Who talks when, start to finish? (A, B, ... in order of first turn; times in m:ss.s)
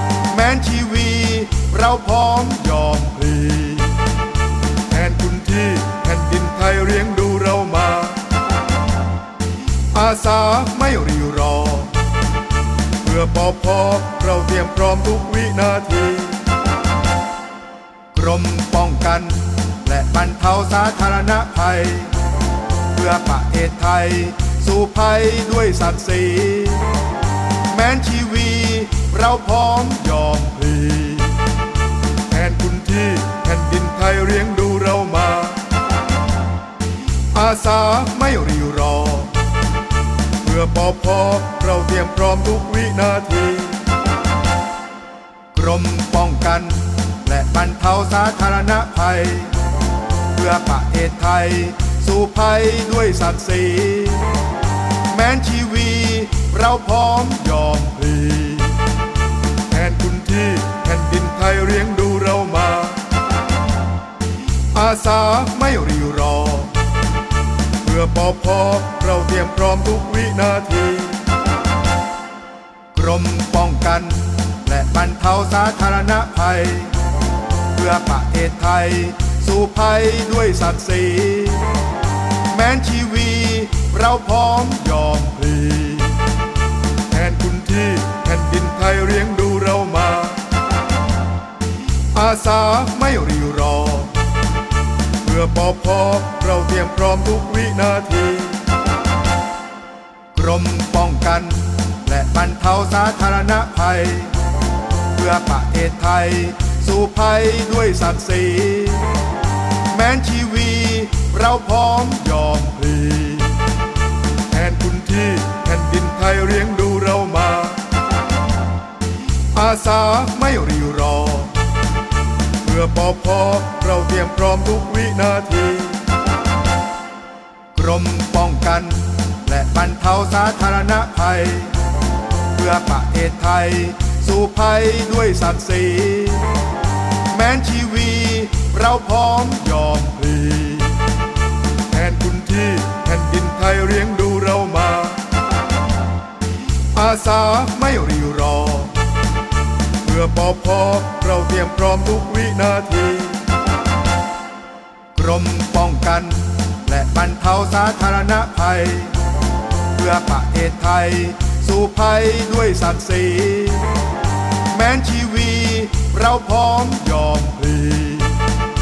0:00.3-0:04.0 A
0:04.8-0:08.4 A
0:09.9-0:12.1 A
0:13.0-0:16.6 A
0:18.1-0:22.3 A
0:22.9-0:27.1 A
0:27.6-0:31.5 A
0:32.3-0:35.8 A
0:37.3-0:39.5 A
0:40.4-0:43.9 A
0:45.5-0:49.7 A
0:50.2-0:54.5 A
0:55.0-0:58.8 A
0:59.7-1:03.2 A
1:04.7-1:06.9 A
1:07.8-1:11.3 A
1:12.9-1:17.1 A
1:17.7-1:21.9 A
1:22.4-1:26.3 A
1:27.1-1:30.6 A
1:32.1-1:34.3 A
1:35.2-1:38.7 A
1:40.3-1:44.5 A
1:45.1-1:49.3 A
1:49.8-1:53.7 A
1:54.5-1:58.0 A
1:59.5-2:01.7 A
2:02.6-2:06.1 A
2:07.7-2:11.9 A
2:12.5-2:16.7 A
2:17.2-2:21.1 A
2:21.9-2:25.4 A
2:26.9-2:29.1 A
2:30.0-2:33.5 A
2:35.1-2:39.3 A
2:39.9-2:44.1 A
2:44.6-2:48.5 A